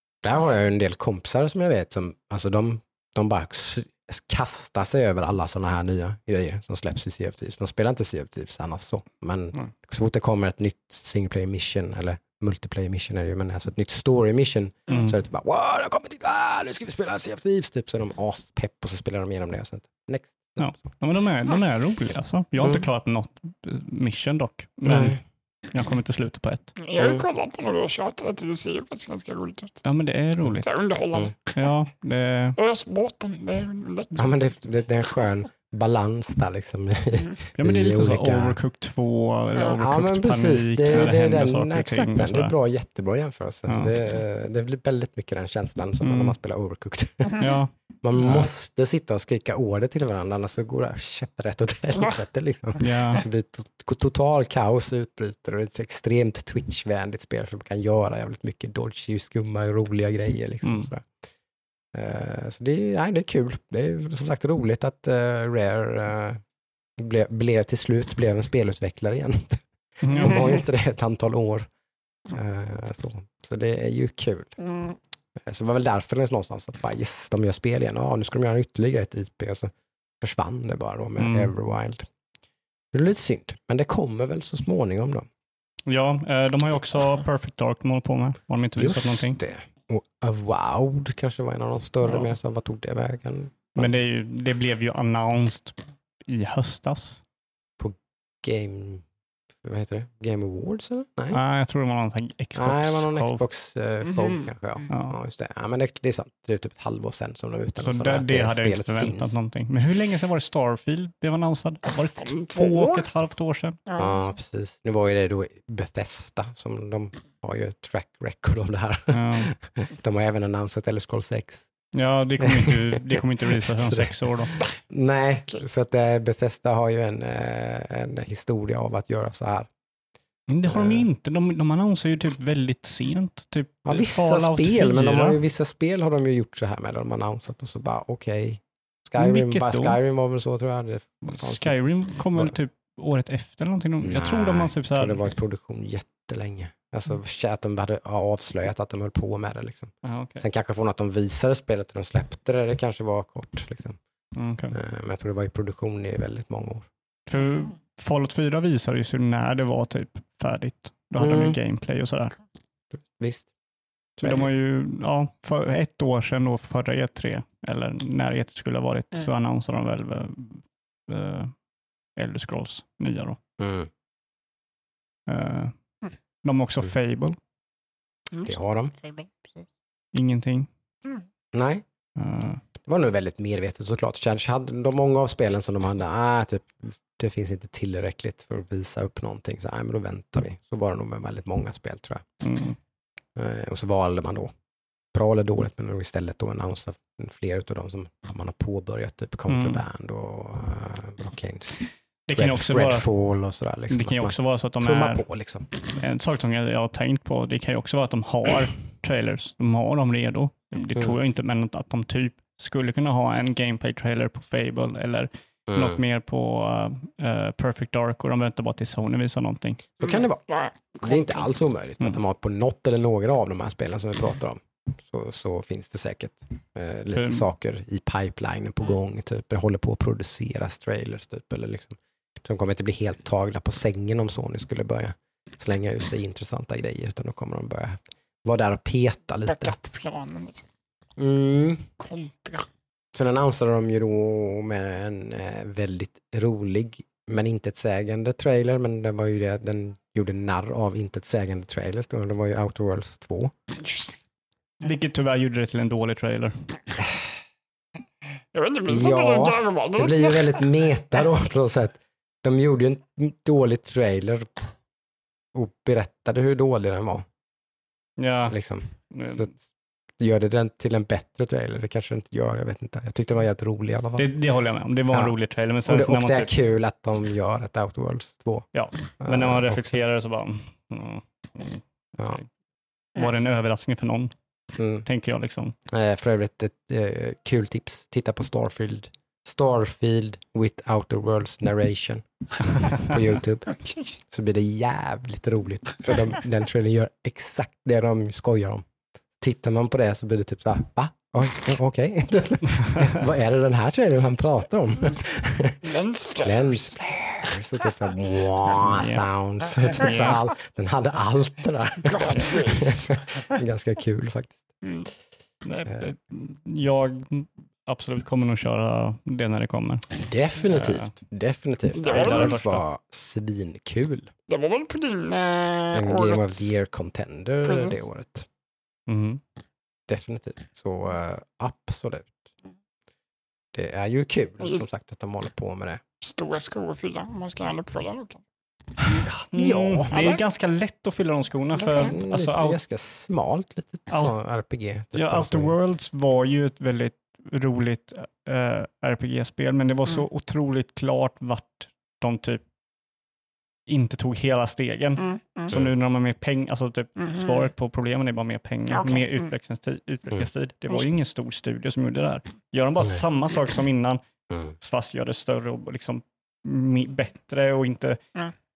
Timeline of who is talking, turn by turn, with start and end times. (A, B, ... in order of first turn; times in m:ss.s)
0:00.2-0:20.8 A
0:14.9-0:15.1 B
0:14.9-0:15.2 C
0:20.6-0:25.2 C
0:22.6-0:22.8 A
0:24.8-0:25.2 A
0:25.7-0:26.8 C
0:26.8-0:29.8 B
0:27.0-0:27.2 A
0:29.8-0:30.7 C
0:30.5-0:31.7 B
0:31.6-0:32.6 C
0:32.6-0:34.3 B
0:34.1-0:38.6 A
0:37.6-0:42.6 C
0:39.7-0:47.4 A
0:43.7-0:43.9 C
0:46.0-0:46.3 C
0:47.4-0:48.5 C
0:48.0-1:01.0 A
0:52.8-0:53.2 C
1:00.6-1:00.9 C
1:01.9-1:06.4 A
1:07.0-1:11.7 A
1:10.0-1:10.6 C
1:10.2-1:10.6 B
1:12.3-1:14.6 A
1:14.6-1:15.0 B
1:15.4-1:22.1 A
1:21.2-1:21.5 C
1:22.9-1:25.3 A
1:25.9-1:29.4 C
1:28.8-1:33.9 A
1:32.0-1:32.3 C
1:33.8-1:37.2 C
1:37.8-1:39.0 A
1:39.6-1:41.4 A
1:41.3-1:43.4 C
1:42.6-1:49.4 A
1:44.1-1:44.4 B
1:44.9-1:45.1 C
1:47.8-1:53.8 C
1:51.9-1:53.1 B
1:53.9-1:54.2 B
1:54.0-2:01.7 A
1:59.1-1:59.5 C
2:01.9-2:04.5 C
2:02.4-2:09.7 A
2:10.5-2:15.4 C
2:10.6-2:11.1 A
2:13.8-2:21.8 A
2:19.2-2:20.0 C
2:21.2-2:25.2 C
2:24.0-2:34.0 A
2:30.0-2:30.4 C
2:34.4-2:34.7 C
2:34.7-2:36.9 A
2:37.3-2:42.4 C
2:41.2-2:41.6 A
2:43.0-2:43.5 A
2:44.2-2:44.5 A
2:44.2-2:51.5 C
2:52.2-2:53.4 C
2:53.6-2:53.9 A
2:55.3-2:55.7 C
2:56.4-2:57.4 C
2:58.3-2:59.7 B
2:58.4-2:58.9 A
3:00.1-3:00.7 C
3:01.5-3:01.8 A
3:02.2-3:02.6 C
3:02.8-3:12.2 A
3:12.4-3:12.8 C
3:13.4-3:14.5 A
3:15.1-3:25.7 A
3:19.5-3:19.8 C
3:22.3-3:23.1 C
3:23.9-3:25.2 C
3:25.9-3:39.8 C
3:35.7-3:36.0 A
3:40.0-3:40.4 A
3:40.0-3:41.5 B
3:41.0-3:59.8 A
3:47.1-3:47.4 C
3:59.5-4:00.7 B
4:01.2-4:01.9 A
4:02.0-4:02.7 B
4:03.1-4:13.5 A
4:13.8-4:14.2 B
4:14.8-4:16.7 C
4:18.5-4:20.6 B
4:18.9-4:24.5 A
4:25.5-4:27.2 A
4:28.2-4:28.6 C
4:28.5-4:29.5 A
4:29.1-4:29.5 C
4:30.2-4:34.3 A
4:34.2-4:36.5 C
4:35.9-4:38.7 A
4:38.7-4:42.4 C
4:39.2-4:40.0 A
4:43.1-4:44.3 C
4:44.8-4:45.0 A
4:45.0-4:45.8 C
4:45.9-4:53.7 A
4:53.8-4:54.1 B
4:54.3-4:58.8 A
4:59.4-5:05.9 A
5:03.0-5:03.2 C
5:05.8-5:07.0 B
5:06.4-5:14.7 A
5:08.8-5:09.3 C
5:09.8-5:10.4 C
5:12.0-5:13.1 B
5:14.8-5:15.1 B
5:15.6-5:20.1 C
5:15.8-5:16.1 A
5:20.2-5:24.3 A
5:20.7-5:21.1 C
5:21.9-5:22.6 B
5:22.0-5:22.8 C
5:24.5-5:26.8 B
5:25.9-5:28.5 A
5:27.6-5:28.0 B
5:29.1-5:29.4 C
5:30.1-5:32.5 A
5:33.7-5:36.0 A
5:36.2-5:38.4 B
5:39.1-5:40.1 A
5:39.1-5:42.8 C
5:40.1-5:40.4 B
5:41.8-5:42.1 B
5:42.0-5:45.7 A
5:45.1-5:52.6 C
5:53.9-6:04.2 C
5:55.2-5:55.7 B
5:57.2-5:57.7 B
5:58.9-5:59.5 B
6:04.5-6:04.7 A
6:04.8-6:08.2 C